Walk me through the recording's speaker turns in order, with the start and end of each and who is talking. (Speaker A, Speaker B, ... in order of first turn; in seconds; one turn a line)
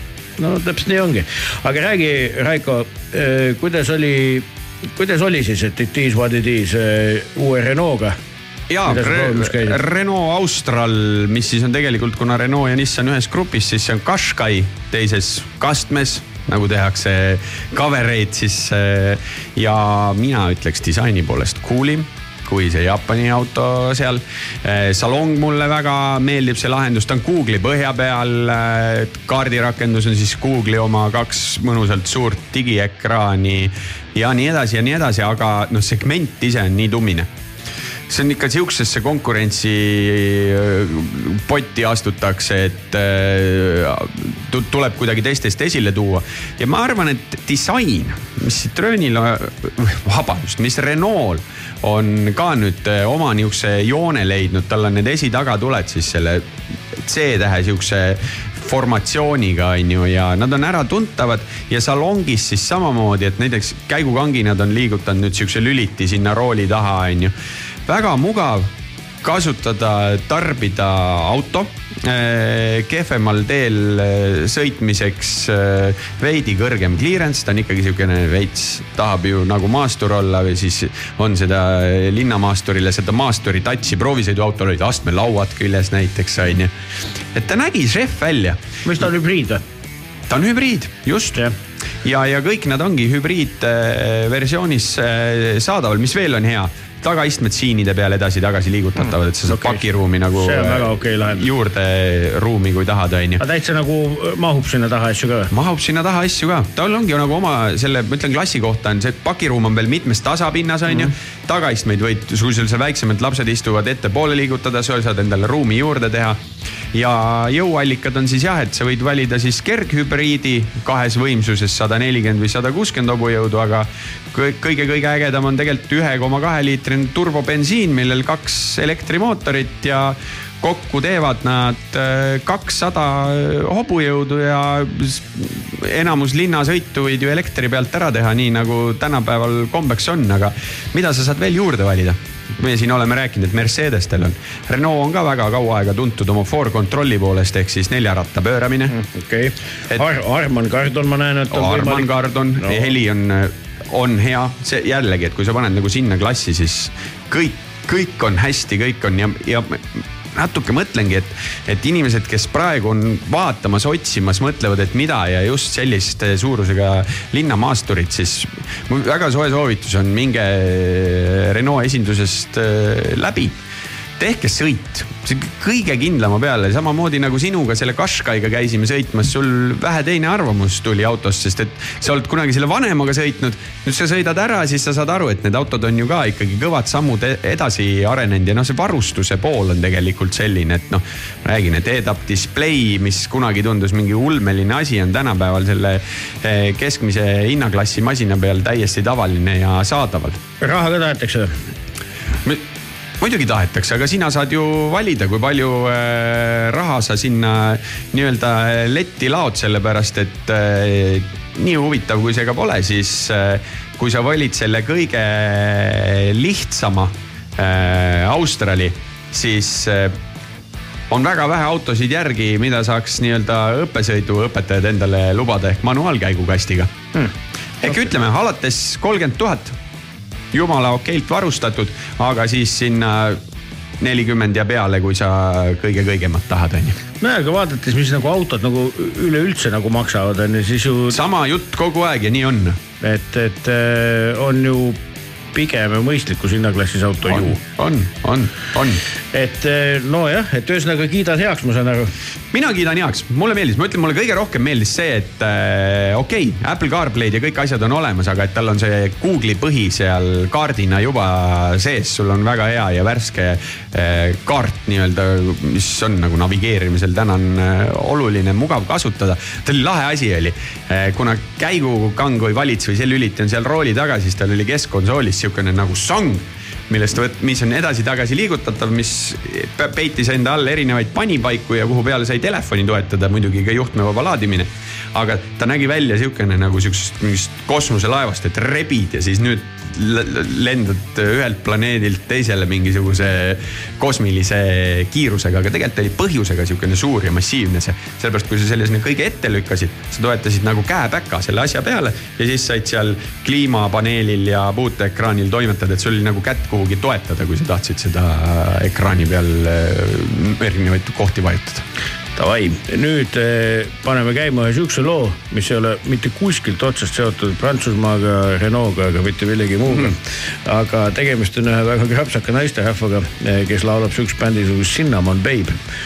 Speaker A: 0.4-8.2
Speaker B: 8.7-37.3
Speaker A: 8.9-9.8
Speaker B: 38.1-67.3
Speaker B: 67.8-68.7
Speaker B: 69.2-86.7
Speaker B: 87.3-88.6
Speaker A: 88.8-89.6
Speaker B: 90.3-91.4
Speaker B: 92.0-103.4
Speaker A: 99.5-99.8
Speaker A: 100.3-101.5
Speaker A: 103.4-105.5
Speaker B: 105.5-116.4
Speaker B: 116.9-148.9
Speaker A: 148.9-152.9
Speaker B: 151.5-173.6
Speaker B: 174.2-200.4
Speaker A: 200.6-201.6
Speaker B: 203.2-220.1
Speaker B: 221.1-226.9
Speaker B: 227.8-229.8
Speaker B: 230.5-233.4
Speaker B: 234.0-237.0
Speaker A: 237.2-241.2
Speaker B: 241.1-242.8
Speaker A: 243.0-245.0
Speaker A: 245.5-247.6
Speaker B: 247.3-249.0
Speaker A: 249.3-252.1
Speaker B: 252.5-311.8
Speaker A: 312.4-325.8